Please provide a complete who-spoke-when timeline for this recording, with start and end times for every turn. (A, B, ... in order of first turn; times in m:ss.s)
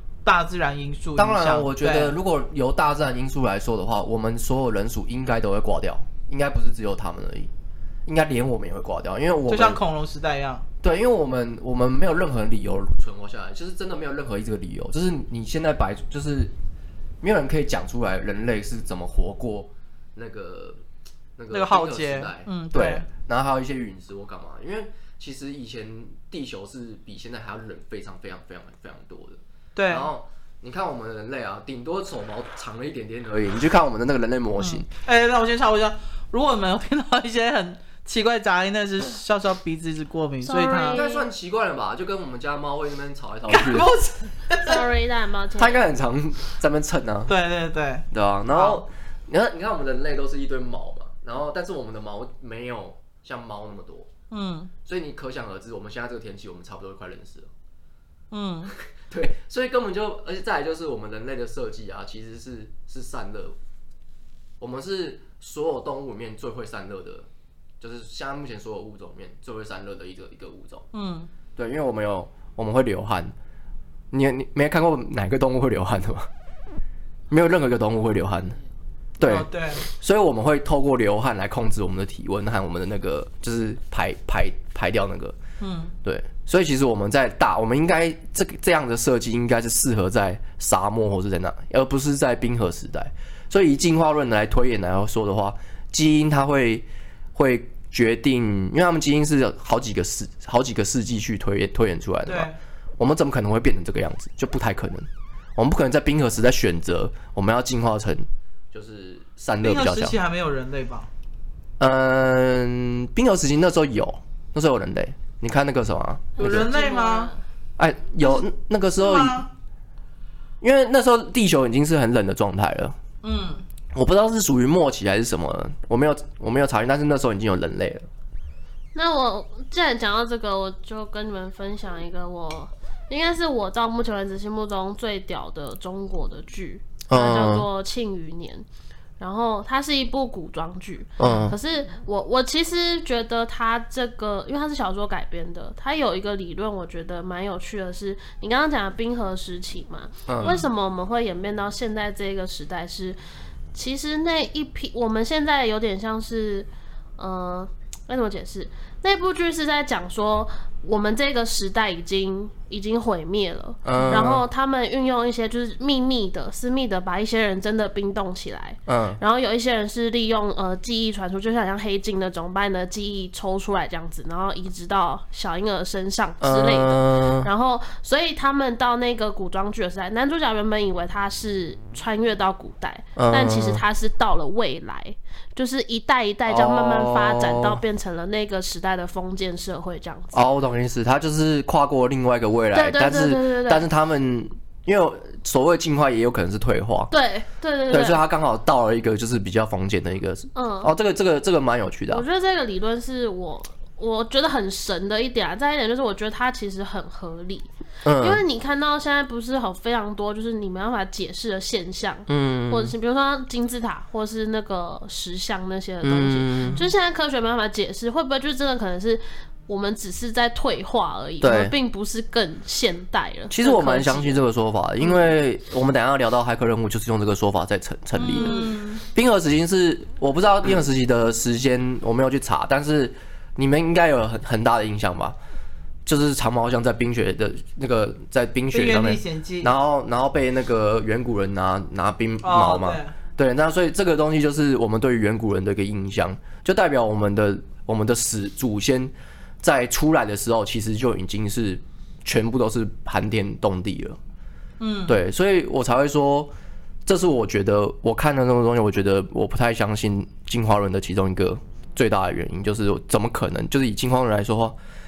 0:00.2-0:02.1 A
0:01.2-0:07.5 B
0:08.0-0:09.8 B
0:09.5-0:10.6 A
0:10.8-0:16.5 B
0:17.2-0:20.8 B
0:21.4-0:34.9 B
0:21.5-0:23.1 A
0:29.7-0:30.1 A
0:34.6-0:41.0 A
0:40.4-0:41.2 C
0:40.8-0:43.9 B
0:43.5-0:44.8 A
0:44.6-0:45.8 C
0:45.6-0:47.3 B
0:47.3-0:48.8 A
0:48.1-0:54.1 B
0:54.3-0:54.7 A
0:54.8-0:57.5 B
0:58.3-0:58.7 A
0:58.9-1:03.6 B
1:04.6-1:07.3 B
1:07.8-1:10.8 B
1:10.9-1:11.3 A
1:11.6-1:13.3 B
1:14.1-1:16.3 B
1:17.3-1:18.6 B
1:19.2-1:25.4 B
1:19.2-1:19.9 A
1:25.6-1:25.9 A
1:26.0-1:50.2 B
1:42.2-1:42.6 A
1:49.6-1:51.1 A
1:51.8-1:56.7 B
1:56.4-1:57.3 A
1:56.4-1:57.4 C
1:57.8-1:59.4 B
1:59.0-1:59.5 A
2:00.6-2:03.0 B
2:03.2-2:03.6 A
2:03.9-2:08.1 B
2:08.9-2:18.6 C
2:17.1-2:17.6 B
2:19.2-2:33.2 C
2:21.2-2:21.6 B
2:30.3-2:30.6 B
2:30.4-2:30.6 A
2:33.7-3:10.4 C
2:43.8-2:44.4 B
2:43.9-2:44.3 A
2:48.9-2:49.2 B
2:56.4-2:57.5 B
3:03.2-3:03.8 B
3:06.4-3:07.8 B
3:10.3-3:17.1 B
3:12.7-3:13.8 C
3:17.1-3:18.2 C
3:17.9-3:22.2 B
3:20.5-3:20.9 C
3:22.1-3:27.7 C
3:28.0-3:28.4 B
3:28.2-3:44.4 C
3:32.3-3:32.9 B
3:36.0-3:36.8 B
3:36.6-3:36.9 A
3:41.4-3:41.7 B
3:43.5-3:48.5 B
3:48.2-3:49.0 A
3:48.3-3:48.7 C
3:49.1-3:55.4 B
3:56.0-4:14.2 B
3:58.7-3:59.7 A
4:02.4-4:03.1 A
4:14.8-4:15.2 A
4:15.1-4:16.5 B
4:17.0-4:24.8 B